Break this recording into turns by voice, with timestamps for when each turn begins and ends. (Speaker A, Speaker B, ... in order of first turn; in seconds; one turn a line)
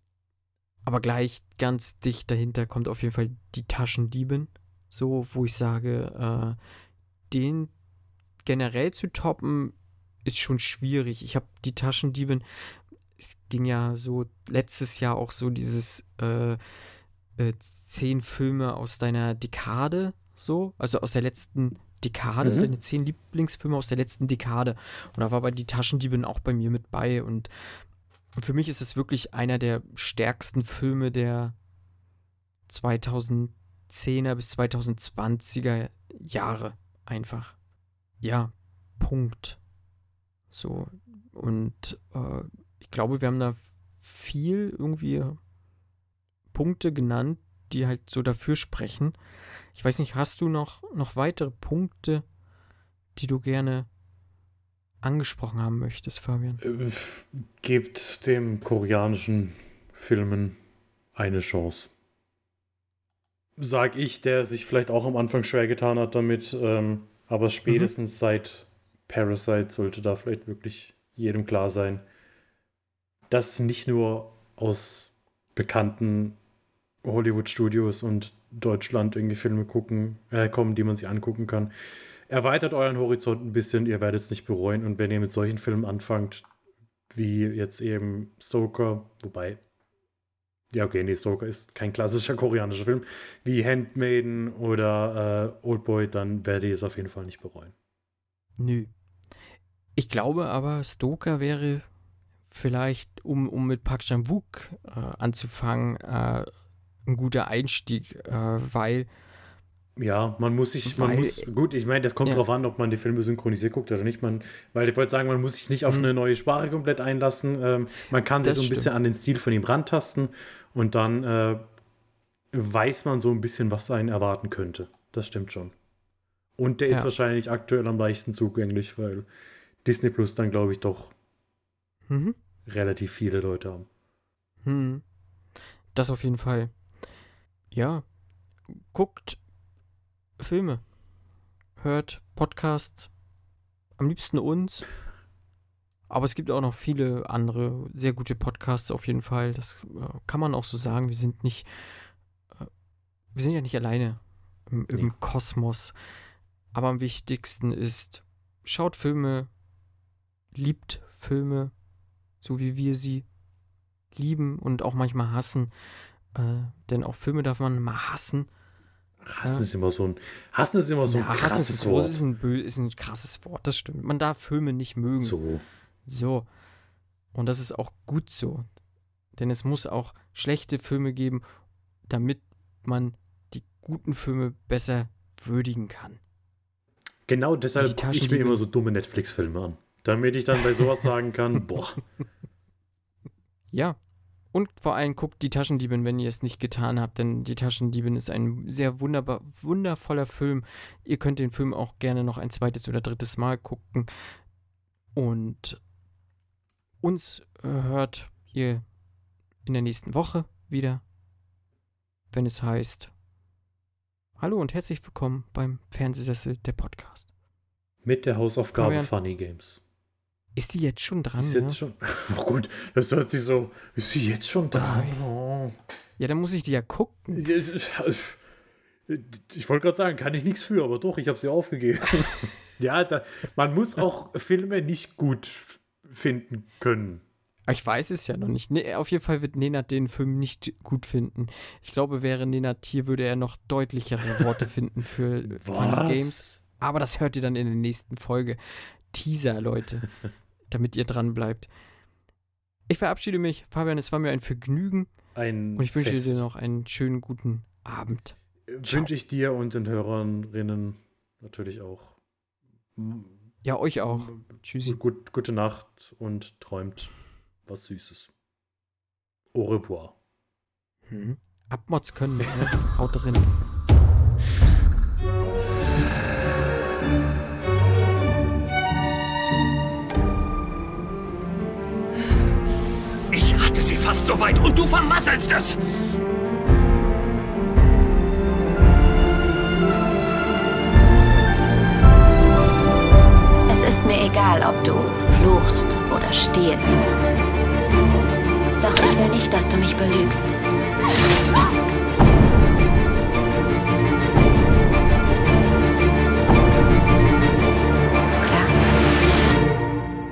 Speaker A: 0.8-6.6
Speaker A: 7.3-7.7
Speaker A: 8.4-9.7
Speaker A: 10.2-12.4
Speaker A: 13.2-16.6
Speaker A: 17.4-27.5
Speaker B: 22.4-22.7
Speaker A: 28.4-31.6
Speaker A: 32.7-37.5
Speaker A: 38.2-39.6
Speaker A: 40.5-45.4
Speaker A: 46.5-49.2
Speaker A: 49.7-52.2
Speaker A: 53.2-53.9
Speaker A: 55.0-56.6
Speaker B: 56.6-60.6
Speaker B: 61.2-61.9
Speaker B: 63.6-72.0
Speaker B: 73.3-76.4
Speaker B: 77.0-81.7
Speaker B: 82.3-86.5
Speaker B: 87.1-89.6
Speaker B: 90.7-97.7
Speaker A: 98.6-98.9
Speaker A: 100.0-101.8
Speaker A: 102.5-106.5
Speaker A: 107.1-109.1
Speaker B: 110.0-121.6
Speaker A: 110.9-111.5
Speaker A: 118.4-118.9
Speaker B: 122.5-125.7
Speaker B: 126.6-129.3
Speaker B: 129.8-131.1
Speaker A: 132.1-132.4
Speaker B: 132.7-133.9
Speaker A: 134.6-135.0
Speaker A: 135.9-136.7
Speaker A: 137.7-138.1
Speaker A: 138.7-139.4
Speaker A: 140.4-140.8
Speaker A: 141.8-143.1
Speaker A: 144.0-144.9
Speaker A: 146.1-152.1
Speaker A: 153.3-155.9
Speaker A: 156.7-159.5
Speaker A: 160.6-161.7
Speaker A: 162.4-163.2
Speaker A: 164.2-165.7
Speaker A: 166.3-168.5
Speaker B: 169.2-172.2
Speaker A: 171.1-175.4
Speaker B: 175.2-175.6
Speaker A: 176.1-176.5
Speaker A: 177.3-178.7
Speaker A: 179.4-181.4
Speaker A: 182.1-186.2
Speaker B: 187.3-192.0
Speaker A: 187.8-188.6
Speaker A: 193.7-194.0
Speaker A: 194.5-204.1
Speaker A: 205.2-205.8
Speaker A: 207.0-208.8
Speaker A: 209.7-211.0
Speaker A: 212.3-213.1
Speaker A: 214.4-217.3
Speaker B: 218.0-219.8
Speaker A: 218.8-219.1
Speaker A: 220.6-221.8
Speaker B: 221.4-225.8
Speaker A: 224.7-225.2
Speaker A: 226.2-227.5
Speaker B: 227.3-228.4
Speaker B: 229.1-237.2
Speaker A: 237.7-250.1
Speaker B: 245.5-246.6
Speaker A: 250.7-251.7
Speaker A: 252.9-255.1
Speaker B: 255.3-256.4
Speaker A: 255.8-259.1
Speaker B: 258.7-262.2
Speaker B: 263.0-263.4
Speaker A: 263.6-265.0
Speaker B: 264.1-267.1
Speaker B: 267.7-268.3
Speaker B: 269.5-270.1
Speaker A: 271.1-273.5
Speaker C: 283.3-285.8
Speaker D: 293.7-297.1
Speaker D: 298.8-300.5
Speaker D: 308.4-308.8